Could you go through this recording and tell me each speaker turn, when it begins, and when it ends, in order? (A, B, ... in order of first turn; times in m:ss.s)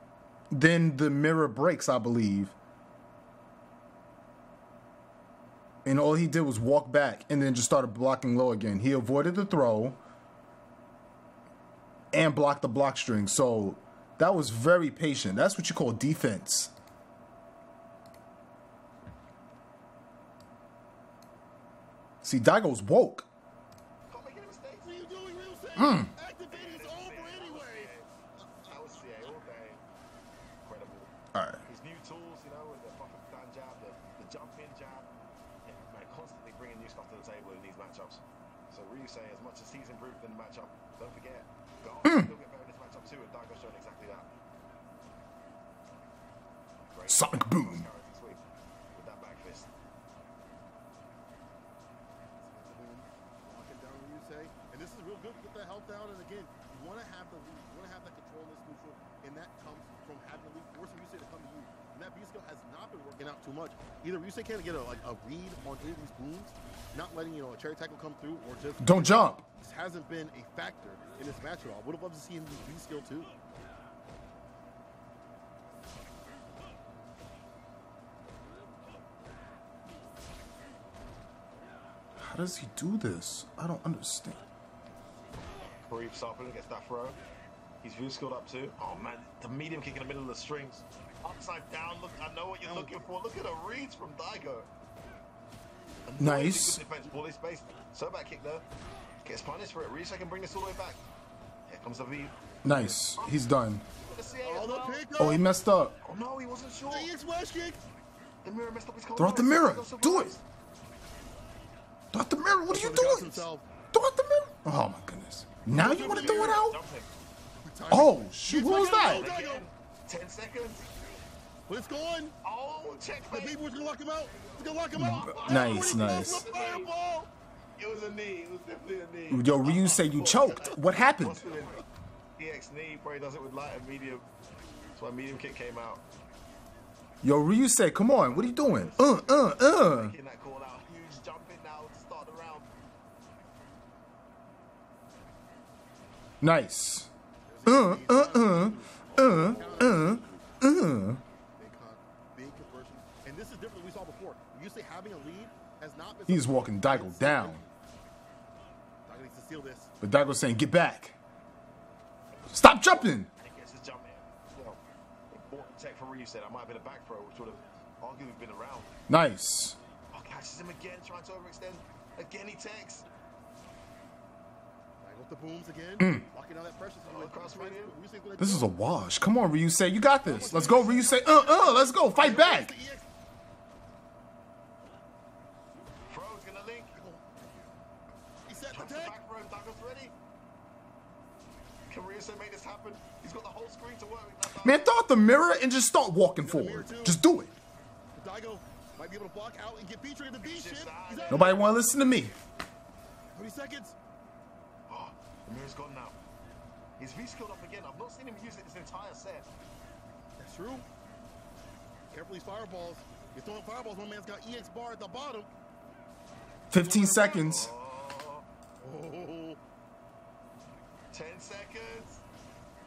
0:00.5-0:02.5 A
0:05.8-0:10.0 A
0:12.1-0:16.7 A
0:22.2-0:23.3 A
0:24.1-0:25.6 B
0:24.8-0:27.9 C
0:25.8-0:26.1 A
0:26.5-0:28.1 B
0:28.6-0:29.8 B
0:30.6-0:31.1 B
0:31.3-0:31.6 A
0:31.6-0:35.1 B
0:35.6-0:44.2 B
0:42.0-0:42.3 A
0:46.9-0:48.4 B
0:47.1-0:47.9 A
0:48.9-0:49.7 B
0:52.4-1:13.3 C
1:08.8-1:09.4 A
1:22.2-1:24.4 A
1:25.6-1:27.2 B
1:27.8-1:34.7 B
1:32.6-1:33.0 C
1:36.0-1:38.6 B
1:36.2-1:36.8 A
1:39.2-1:41.0 B
1:41.7-1:43.5 B
1:42.6-1:43.8 A
1:44.0-1:45.1 B
1:44.4-1:45.4 C
1:45.2-1:45.9 A
1:46.0-1:47.1 B
1:46.9-1:47.8 C
1:48.4-1:50.4 B
1:49.2-1:50.4 A
1:52.1-1:56.8 A
1:52.7-1:53.6 C
1:55.7-1:56.6 C
1:55.8-1:57.1 B
1:57.6-1:59.7 C
1:57.9-1:59.3 A
1:58.9-2:00.9 B
2:01.7-2:02.3 C
2:02.4-2:06.9 B
2:03.3-2:07.3 C
2:05.0-2:06.5 A
2:07.8-2:11.8 B
2:09.3-2:11.4 A
2:12.4-2:14.2 B
2:14.9-2:16.0 B
2:17.2-2:20.1 A
2:18.5-2:19.2 C
2:19.0-2:22.7 B
2:26.4-2:27.1 A
2:27.4-2:30.4 C
2:27.6-2:31.2 A
2:29.1-2:30.1 B
2:31.6-2:37.7 C
2:36.3-2:37.6 A
2:39.0-2:39.9 C
2:40.0-2:41.1 A
2:42.4-2:44.8 B
2:42.5-2:43.3 A
2:45.3-2:48.9 B
2:49.1-2:49.8 A
2:50.1-2:53.0 B
2:55.0-2:58.7 C
2:56.0-2:56.2 A
2:57.0-2:58.0 B
2:58.4-3:02.7 A
3:00.2-3:03.0 C
3:06.1-3:07.0 B
3:07.0-3:07.7 C
3:08.5-3:09.1 C
3:08.7-3:10.1 B
3:11.9-3:15.0 B
3:14.6-3:17.5 A
3:16.4-3:17.2 C
3:18.1-3:21.5 C
3:20.4-3:21.9 B
3:21.3-3:22.4 A
3:23.3-3:24.0 C
3:24.9-3:26.2 B
3:27.0-3:29.5 B
3:30.4-3:30.8 C
3:32.1-3:35.5 C
3:36.7-3:37.7 A
3:36.8-3:37.5 C
3:37.4-3:38.4 B
3:38.8-3:39.6 C
3:41.1-3:42.2 B